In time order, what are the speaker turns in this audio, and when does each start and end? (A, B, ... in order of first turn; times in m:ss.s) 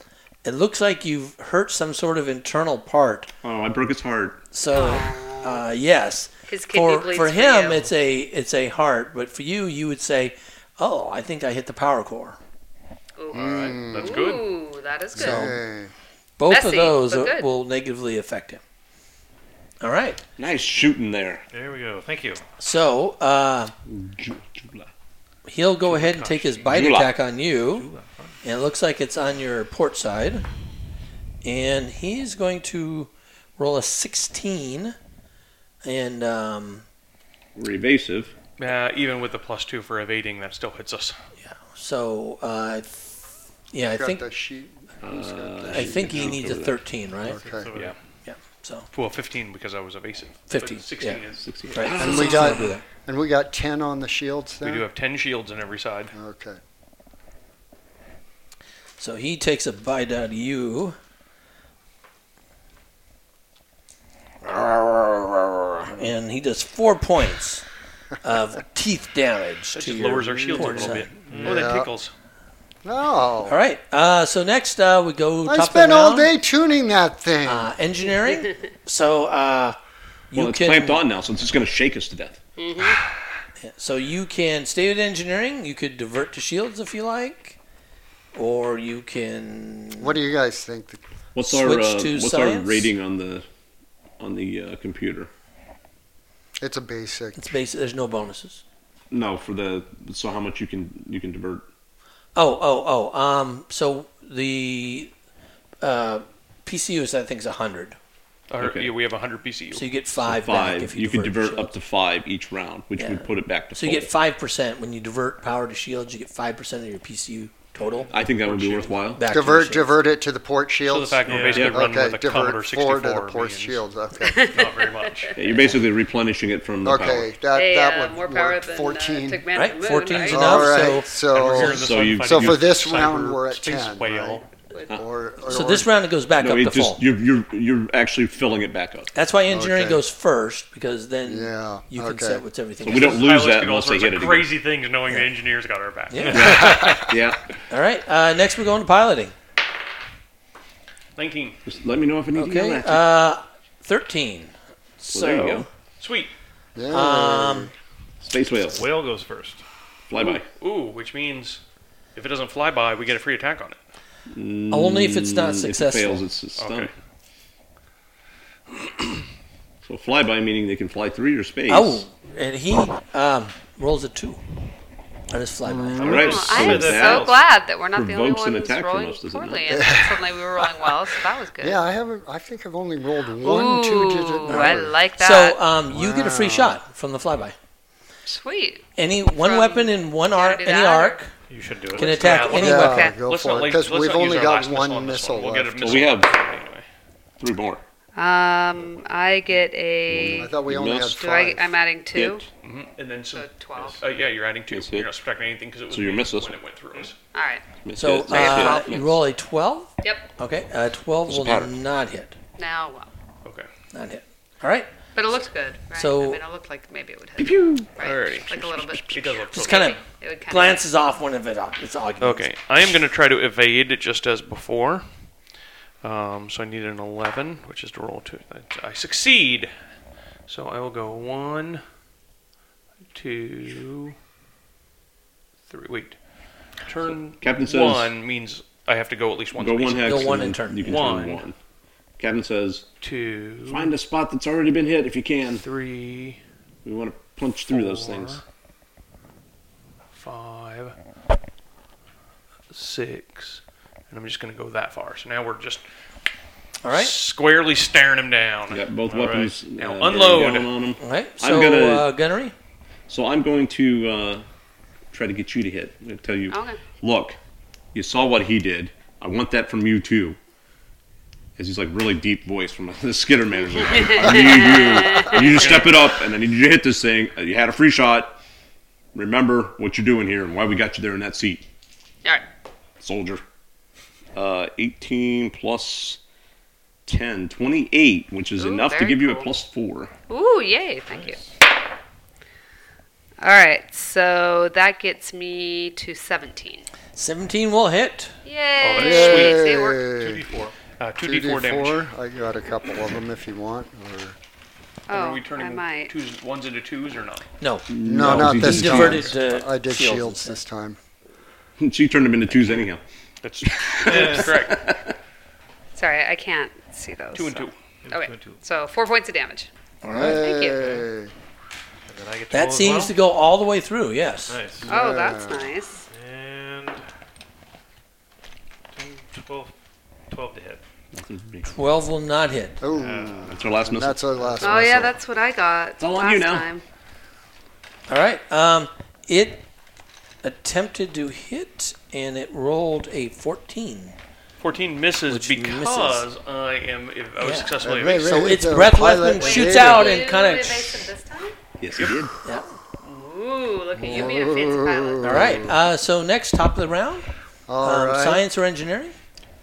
0:00.4-0:03.3 A
0:03.4-0:04.4 B
0:04.5-0:12.4 A
0:04.7-0:05.6 C
0:06.5-0:07.9 C
0:13.2-0:15.6 C
0:13.3-0:14.2 D
0:13.3-0:14.5 E
0:15.2-0:15.6 A
0:15.2-0:15.9 D
0:16.4-0:18.6 A
0:16.5-0:17.5 C
0:19.8-0:20.2 A
0:20.4-0:21.4 B
0:21.5-0:22.4 F
0:22.6-0:23.7 A
0:23.9-0:24.9 B
0:25.5-0:27.9 A
0:25.8-0:27.0 F
0:26.7-0:27.1 B
0:27.6-0:28.4 F
0:28.4-0:30.4 A
0:31.4-0:35.0 A
0:35.8-0:36.8 A
0:37.6-0:38.3 B
0:38.6-0:41.2 E
0:41.4-0:44.2 A
0:43.9-0:46.4 D
0:45.0-0:46.8 B
0:45.7-0:47.4 A
0:47.2-0:48.0 F
0:47.3-0:47.7 D
0:48.2-0:48.9 A
0:48.9-0:52.5 E
0:50.5-0:51.2 A
0:51.4-0:52.7 B
0:51.7-0:52.8 A
0:52.0-0:54.9 D
0:54.6-0:56.1 E
0:56.1-0:56.6 D
0:59.0-1:01.0 A
1:04.4-1:07.7 A
1:08.2-1:11.1 A
1:09.7-1:12.1 E
1:10.3-1:11.9 D
1:11.3-1:11.7 F
1:12.8-1:13.6 D
1:13.4-1:16.3 A
1:15.5-1:17.7 D
1:17.4-1:19.8 A
1:20.3-1:21.0 A
1:20.3-1:22.4 B
1:22.6-1:23.0 C
1:23.6-1:27.6 A
1:28.3-1:30.2 A
1:30.0-1:31.0 D
1:31.4-1:33.5 B
1:31.4-1:32.9 A
1:34.2-1:35.3 B
1:36.6-1:37.5 D
1:37.4-1:38.6 A
1:39.1-1:41.7 B
1:42.4-1:45.1 A
1:45.8-1:48.0 A
1:48.5-1:49.9 E
1:48.6-1:48.9 B
1:49.7-1:51.7 A
1:50.2-1:54.1 B
1:53.0-1:58.1 A
1:58.1-1:59.2 B
1:58.2-1:59.0 E
1:59.2-2:00.0 A
1:59.3-2:04.5 D
2:00.8-2:03.8 E
2:01.3-2:01.8 F
2:01.5-2:01.9 B
2:04.2-2:05.4 C
2:04.4-2:05.4 E
2:05.4-2:07.4 B
2:06.8-2:09.4 D
2:07.5-2:10.8 C
2:09.5-2:11.1 A
2:10.2-2:15.9 D
2:11.2-2:14.5 E
2:11.5-2:12.8 B
2:15.5-2:17.0 A
2:16.4-2:19.1 B
2:19.1-2:23.3 A
2:19.5-2:20.0 D
2:21.3-2:22.4 D
2:22.8-2:24.5 B
2:22.9-2:26.9 E
2:26.1-2:27.0 A
2:26.2-2:27.0 F
2:26.3-2:27.4 B
2:27.7-2:29.3 A
2:31.2-2:31.6 E
2:31.7-2:33.1 B
2:32.4-2:35.7 A
2:35.1-2:35.7 B
2:36.0-2:36.3 E
2:36.8-2:37.7 D
2:36.9-2:37.7 A
2:38.2-2:38.9 B
2:38.5-2:39.6 F
2:40.1-2:40.5 B
2:40.2-2:41.6 E
2:42.2-2:43.8 E
2:44.3-2:46.9 B
2:44.7-2:46.2 A
2:46.6-2:46.9 E
2:49.8-2:52.0 B
2:51.7-2:54.4 A
2:55.3-2:56.3 A
2:55.6-2:56.4 D
2:56.0-2:57.4 F
2:56.0-2:57.4 B
2:56.2-3:01.8 C
2:57.9-2:59.7 B
2:59.7-3:00.9 D
3:01.6-3:05.0 D
3:03.4-3:05.6 C
3:04.5-3:07.6 A
3:05.9-3:06.8 D
3:08.3-3:11.2 C
3:09.0-3:11.3 A
3:11.5-3:12.7 F
3:11.9-3:13.1 A
3:12.0-3:16.9 E
3:12.2-3:13.2 C
3:12.6-3:16.0 D
3:15.8-3:16.3 B
3:17.4-3:17.8 B
3:18.2-3:22.5 C
3:20.1-3:21.1 B
3:20.3-3:21.8 D
3:22.1-3:22.5 B
3:22.6-3:27.2 E
3:23.3-3:24.0 C
3:24.7-3:25.1 B
3:25.9-3:26.6 B
3:27.3-3:27.7 C
3:27.8-3:29.2 B
3:28.0-3:32.4 A
3:28.3-3:28.9 C
3:30.0-3:30.3 C
3:31.3-3:31.8 B
3:32.6-3:33.1 C
3:33.9-3:34.9 A
3:35.2-3:40.8 C
3:36.0-3:36.4 A
3:37.4-3:38.0 B
3:38.0-3:40.0 E
3:38.5-3:39.2 B
3:39.5-3:42.5 A
3:42.2-3:45.1 E
3:46.0-3:49.7 E
3:50.5-3:51.8 E
3:53.1-3:54.2 E
3:55.7-3:56.2 E
3:56.8-4:01.5 E
3:57.4-3:58.1 B
3:59.6-4:01.6 B
4:00.0-4:01.0 A
4:02.2-4:02.9 B
4:03.0-4:03.9 E
4:03.7-4:05.6 B
4:05.6-4:06.4 E
4:06.8-4:08.4 B
4:07.7-4:08.4 E
4:10.1-4:11.0 E
4:12.7-4:15.8 E
4:16.8-4:17.2 A
4:16.9-4:18.9 E
4:18.7-4:22.1 B
4:19.1-4:19.6 F
4:19.8-4:20.8 E
4:21.0-4:22.5 A
4:23.1-4:24.4 B
4:25.1-4:27.4 B
4:26.5-4:26.8 C
4:27.9-4:30.4 B
4:31.6-4:38.4 B
4:33.9-4:36.0 C
4:39.1-4:41.6 B
4:43.0-4:43.4 B
4:44.4-4:46.2 B
4:47.1-4:50.1 B
4:48.6-4:49.5 C
4:50.3-4:51.4 C
4:51.1-4:51.4 F
4:53.4-4:56.9 C
4:57.2-4:58.4 A
4:58.4-5:00.1 C
4:58.8-4:59.7 E
4:59.0-5:00.5 D
5:00.4-5:00.7 F
5:00.8-5:02.0 E
5:01.2-5:04.4 D
5:05.1-5:06.1 C
5:05.1-5:07.5 E
5:07.6-5:10.6 A
5:07.9-5:09.3 B
5:08.0-5:11.0 D
5:11.8-5:13.0 B
5:13.4-5:14.9 E
5:13.7-5:15.2 B
5:14.1-5:14.6 F
5:16.0-5:21.0 C
5:17.4-5:17.8 E
5:18.0-5:18.6 F
5:20.0-5:20.4 A
5:20.1-5:21.3 D
5:22.1-5:23.2 F
5:22.5-5:24.6 A
5:24.5-5:24.9 F
5:24.8-5:25.8 D
5:24.9-5:26.0 C
5:26.1-5:27.0 F
5:28.9-5:29.7 F
5:30.3-5:30.8 F
5:31.1-5:31.7 B
5:31.7-5:32.8 A
5:32.8-5:35.2 D
5:32.9-5:34.7 F
5:33.5-5:34.2 B
5:34.6-5:36.8 C
5:36.0-5:36.7 B
5:38.1-5:39.6 A
5:40.4-5:44.2 A
5:44.6-5:48.5 E
5:45.3-5:46.2 A
5:47.4-5:51.1 A
5:47.8-5:50.3 D
5:49.2-5:51.6 C
5:51.8-5:52.4 B
5:52.0-5:52.2 E
5:53.0-5:55.7 C
5:54.0-5:55.8 D
5:55.2-5:57.3 A
5:57.7-5:58.4 D
5:57.8-5:59.2 A